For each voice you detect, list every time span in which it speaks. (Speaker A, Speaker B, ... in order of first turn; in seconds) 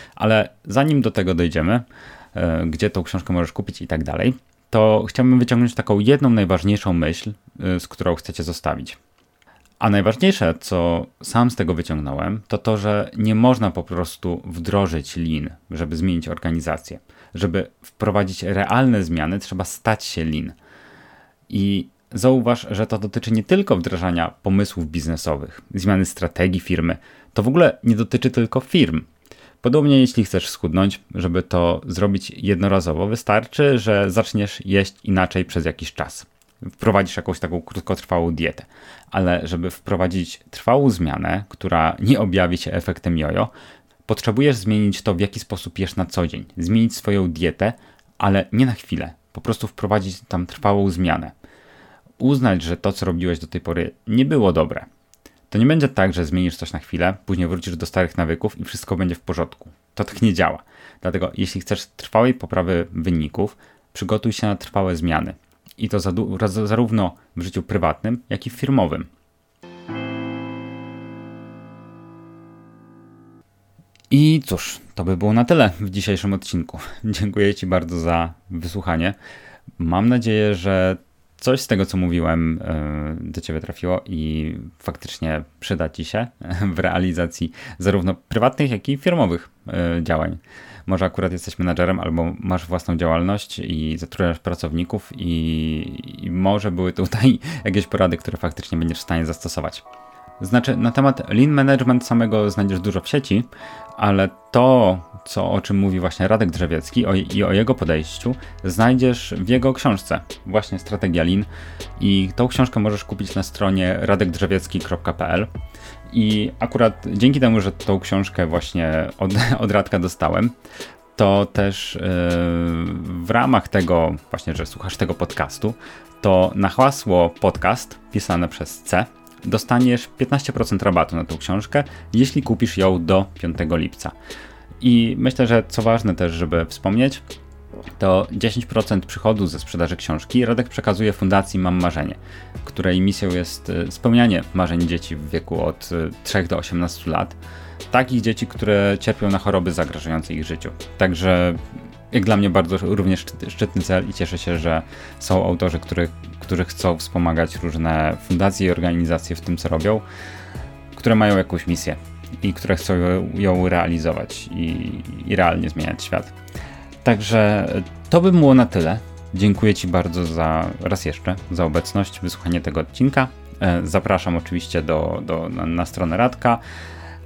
Speaker A: 0.2-9.0, 9.8-20.6, 21.5-29.1, 29.6-43.5, 44.1-51.3, 52.2-54.9, 55.5-69.1, 74.1-79.2, 79.8-99.8, 100.4-115.5, 116.1-120.5, 121.2-134.1, 134.8-137.2, 138.0-147.4, 147.9-160.1, 160.9-166.3, 167.0-176.6